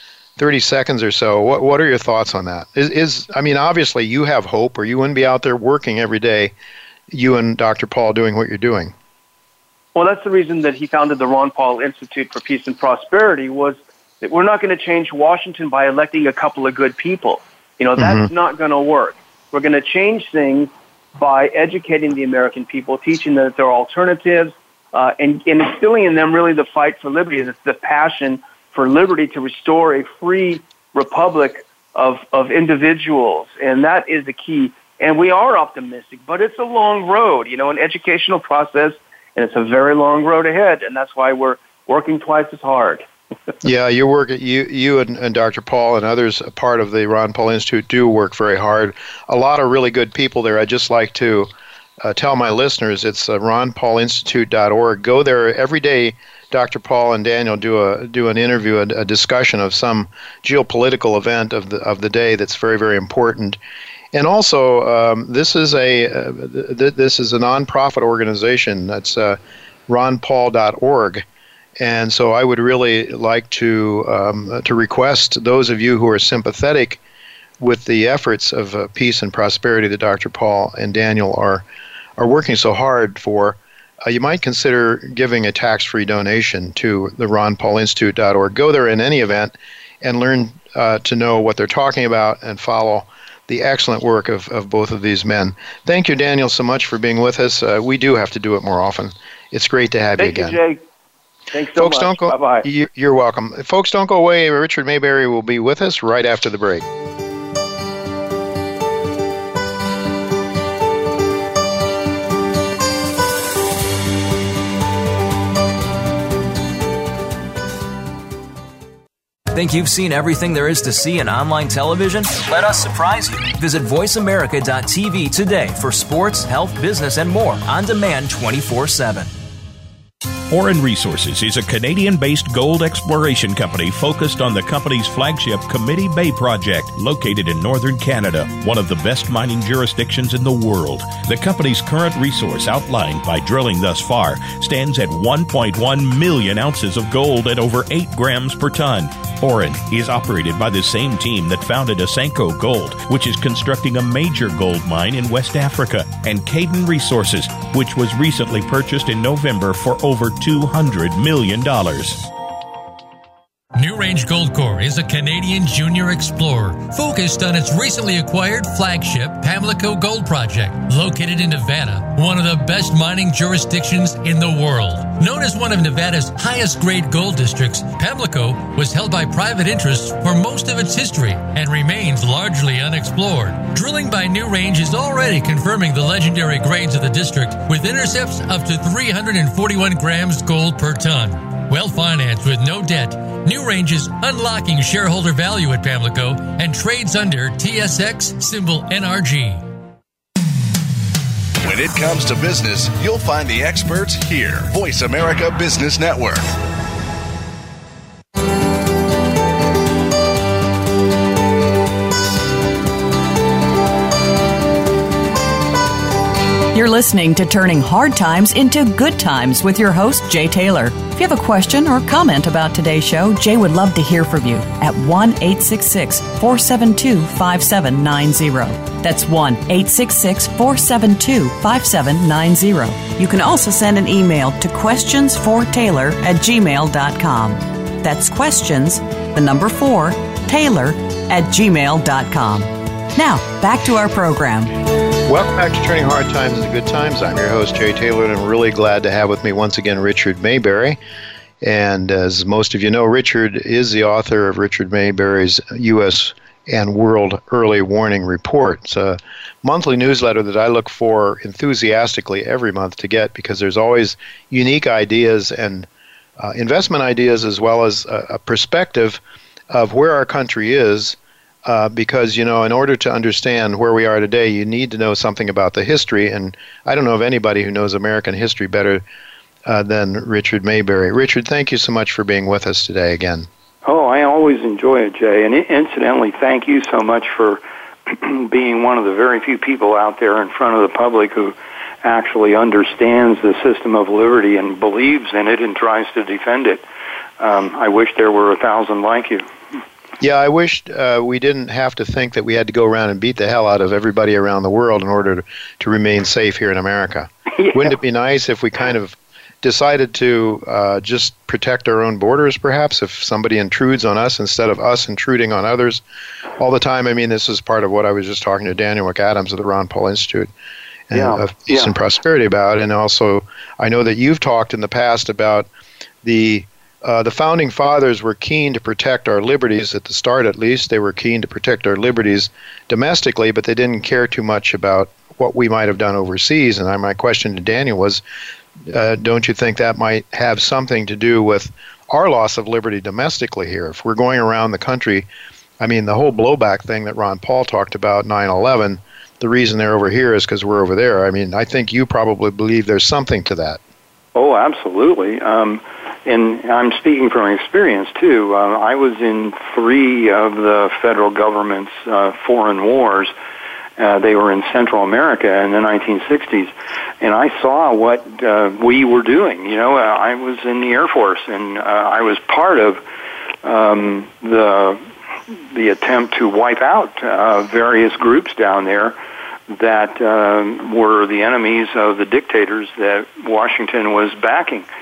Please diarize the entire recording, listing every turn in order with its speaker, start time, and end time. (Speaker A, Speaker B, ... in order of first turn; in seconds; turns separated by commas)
Speaker A: 0.4-6.5, Speaker A: 7.1-8.9, Speaker B: 9.9-43.1, Speaker A: 18.0-18.3, Speaker A: 43.6-51.5, Speaker A: 52.0-63.6, Speaker A: 64.1-71.2, Speaker A: 71.8-77.0, Speaker A: 77.6-81.7, Speaker A: 82.2-100.6, Speaker B: 100.2-100.8, Speaker B: 101.5-102.7, Speaker A: 101.8-106.9, Speaker C: 119.5-129.3, Speaker D: 130.5-162.3, Speaker E: 163.8-199.6, Speaker F: 201.6-206.5, Speaker G: 216.7-244.8, Speaker A: 245.2-251.0, Speaker A: 251.6-279.0, Speaker A: 279.7-283.5, Speaker H: 283.9-296.8, Speaker H: 297.4-299.5, Speaker A: 300.2-316.0, Speaker A: 316.6-320.5, Speaker A: 321.1-325.7, Speaker H: 321.1-321.9, Speaker A: 326.2-338.2, Speaker A: 338.9-345.3, Speaker A: 345.8-353.8, Speaker H: 354.4-363.3, Speaker H: 364.0-373.0, Speaker H: 373.6-375.0, Speaker H: 375.7-379.2, Speaker H: 379.7-384.9